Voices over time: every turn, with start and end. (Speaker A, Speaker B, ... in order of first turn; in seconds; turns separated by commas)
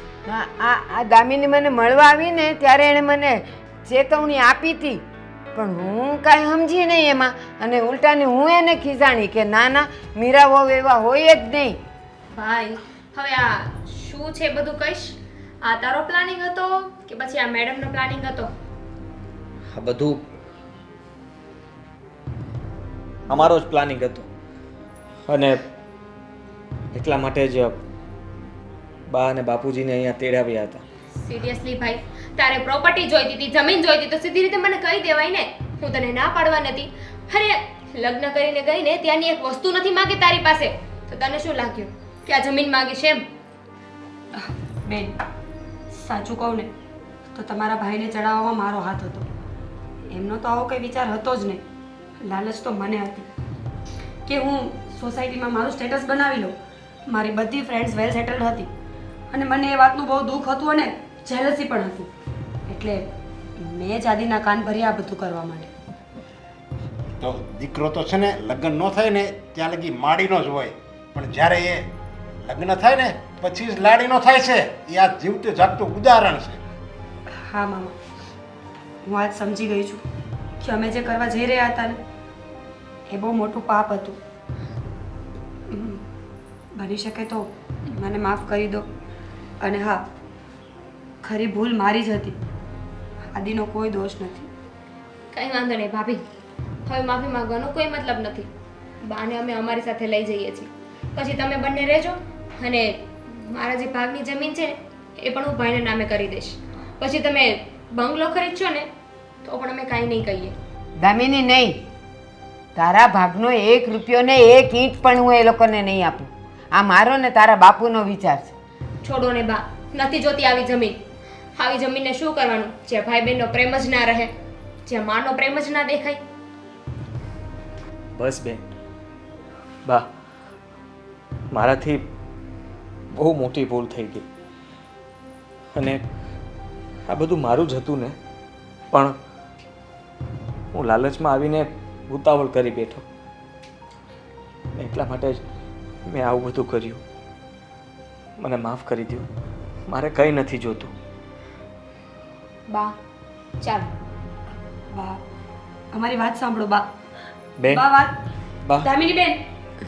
Speaker A: 0.3-5.0, Speaker A: 5.5-11.8, Speaker B: 12.3-18.5, Speaker C: 19.7-20.2, Speaker C: 23.3-24.3, Speaker C: 25.3-25.6, Speaker C: 26.9-27.8, Speaker C: 29.1-30.8, Speaker B: 31.2-43.2, Speaker D: 44.3-45.2, Speaker D: 45.9-46.7, Speaker D: 47.3-49.3, Speaker D: 50.1-51.6, Speaker D: 52.2-53.3, Speaker D: 54.3-58.7, Speaker D: 59.3-62.1, Speaker D: 62.7-65.7, Speaker E: 67.2-71.9, Speaker E: 72.4-76.6, Speaker D: 77.3-78.0, Speaker D: 79.0-80.0, Speaker D: 80.6-82.0, Speaker D: 83.1-84.2, Speaker D: 85.7-86.0, Speaker D: 86.8-88.9, Speaker D: 89.6-90.1, Speaker D: 91.2-92.4, Speaker D: 93.3-94.5, Speaker B: 95.3-96.2, Speaker B: 96.9-98.5, Speaker B: 99.0-108.9, Speaker B: 109.4-110.5, Speaker A: 111.0-111.8, Speaker A: 112.8-118.5, Speaker B: 119.0-121.0, Speaker B: 121.6-124.3, Speaker B: 124.9-126.2, Speaker C: 128.2-128.6, Speaker C: 131.5-132.1, Speaker C: 133.1-134.3, Speaker C: 135.8-136.0, Speaker C: 137.1-138.2, Speaker C: 138.9-139.2, Speaker C: 140.7-143.1, Speaker C: 144.8-145.4, Speaker C: 146.1-147.0, Speaker C: 148.4-149.3, Speaker C: 149.9-150.9, Speaker B: 152.7-153.0, Speaker B: 153.6-153.9, Speaker D: 154.9-155.2, Speaker D: 155.9-156.9, Speaker C: 157.6-157.8, Speaker D: 157.7-158.2, Speaker D: 158.8-159.4